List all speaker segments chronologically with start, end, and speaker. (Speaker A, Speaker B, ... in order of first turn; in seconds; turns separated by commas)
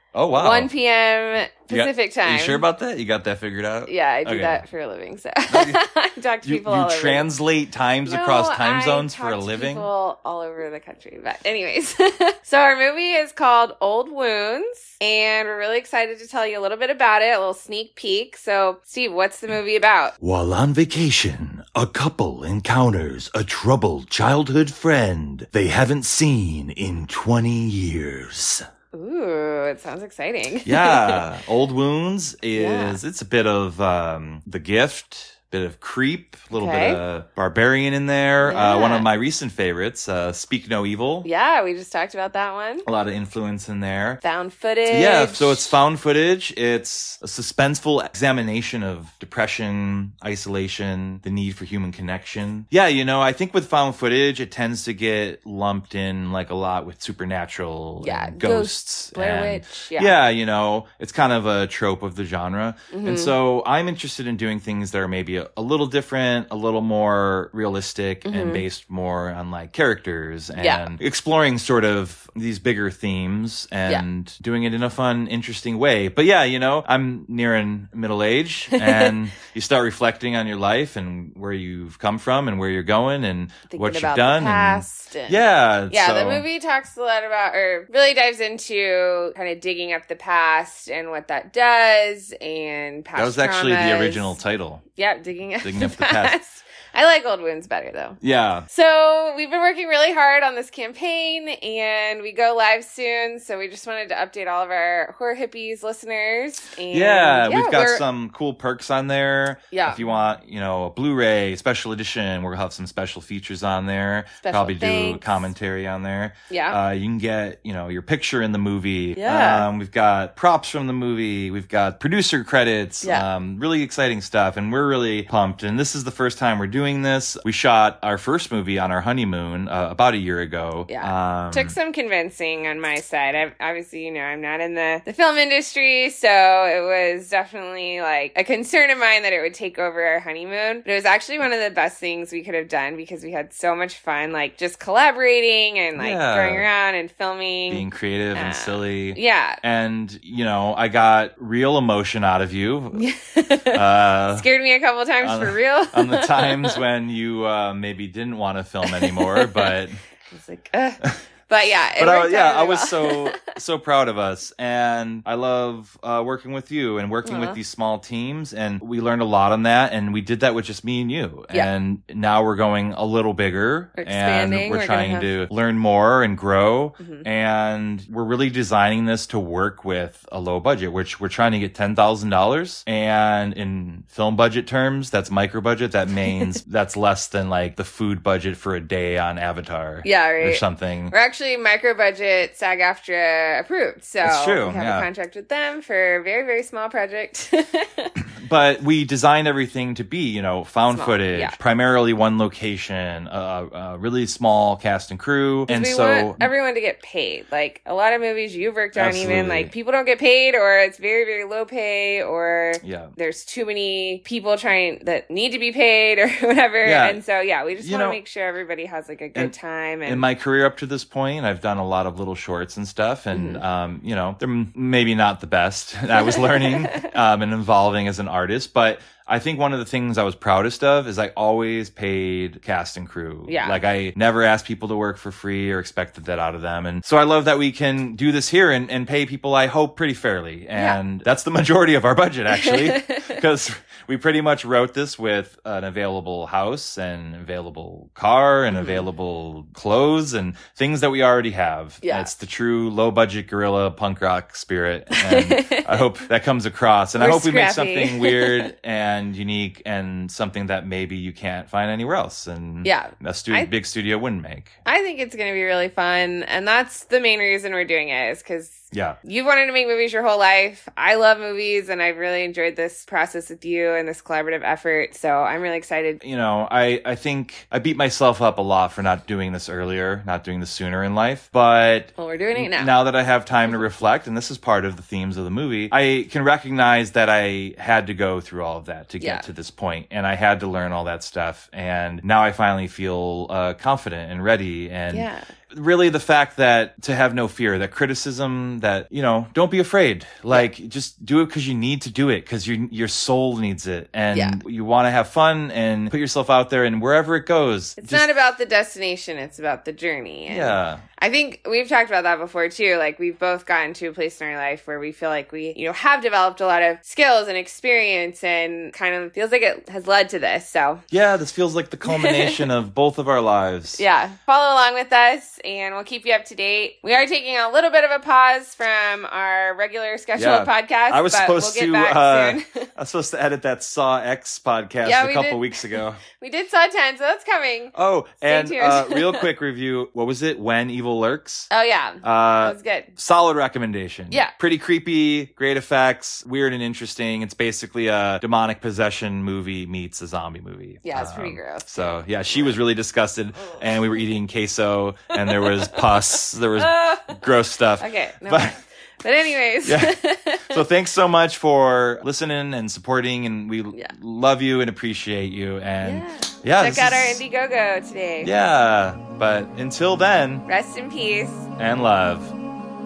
Speaker A: 0.1-0.7, Speaker B: 0.3-2.6, Speaker A: 1.7-4.6, Speaker B: 3.9-7.3, Speaker A: 5.5-5.8, Speaker A: 6.4-9.9, Speaker B: 8.0-20.1, Speaker A: 20.2-28.6, Speaker B: 28.9-31.2, Speaker A: 30.6-41.3, Speaker B: 32.5-33.0, Speaker B: 36.5-37.0, Speaker B: 38.4-39.1, Speaker B: 41.2-42.9, Speaker A: 42.8-44.2, Speaker B: 44.2-45.7, Speaker A: 44.9-86.5, Speaker B: 58.0-60.1, Speaker B: 62.9-63.3, Speaker B: 68.2-68.6, Speaker B: 70.6-70.9, Speaker B: 78.7-79.2, Speaker B: 83.7-94.4, Speaker A: 93.2-94.8, Speaker B: 94.9-98.2, Speaker A: 95.6-96.4, Speaker A: 98.2-98.7, Speaker B: 98.7-108.0, Speaker A: 106.9-131.8, Speaker B: 109.7-110.1, Speaker B: 114.4-115.5, Speaker B: 116.5-116.8, Speaker B: 119.2-119.7, Speaker B: 130.9-149.6, Speaker A: 145.9-146.7, Speaker A: 147.7-153.1, Speaker B: 152.9-156.8, Speaker A: 153.7-154.5, Speaker A: 155.2-160.0, Speaker B: 158.8-159.7, Speaker B: 160.3-163.4, Speaker A: 161.9-191.1, Speaker B: 167.2-167.6, Speaker B: 174.0-175.3, Speaker B: 177.0-177.2, Speaker B: 190.0-198.1, Speaker A: 194.2-195.1, Speaker A: 198.3-206.5, Speaker B: 200.9-201.6, Speaker B: 205.7-220.3, Speaker A: 208.9-209.7, Speaker A: 212.8-213.1, Speaker A: 216.8-217.2, Speaker A: 217.8-218.2, Speaker A: 220.1-264.8, Speaker B: 223.3-223.6, Speaker B: 226.1-227.1, Speaker B: 233.5-233.8, Speaker B: 242.5-243.4, Speaker B: 248.7-249.1, Speaker B: 252.0-252.3, Speaker B: 255.1-256.0, Speaker B: 257.2-258.7, Speaker B: 262.8-263.7, Speaker B: 264.9-276.2, Speaker A: 268.9-269.2, Speaker A: 276.2-308.4, Speaker B: 282.2-283.0, Speaker B: 289.2-289.5, Speaker B: 295.1-295.5, Speaker B: 304.3-304.6, Speaker B: 308.0-321.0, Speaker A: 310.5-311.0, Speaker A: 321.1-324.0, Speaker B: 322.0-322.7, Speaker B: 323.9-332.9, Speaker A: 330.4-336.2, Speaker B: 335.0-339.5, Speaker A: 337.9-341.7, Speaker B: 341.7-343.1, Speaker A: 342.2-358.8, Speaker B: 351.0-352.7, Speaker B: 353.6-353.9, Speaker B: 355.4-357.4, Speaker B: 358.0-360.8, Speaker A: 359.8-367.4, Speaker B: 366.0-368.5, Speaker A: 368.4-370.6, Speaker B: 370.6-371.7, Speaker A: 371.8-372.5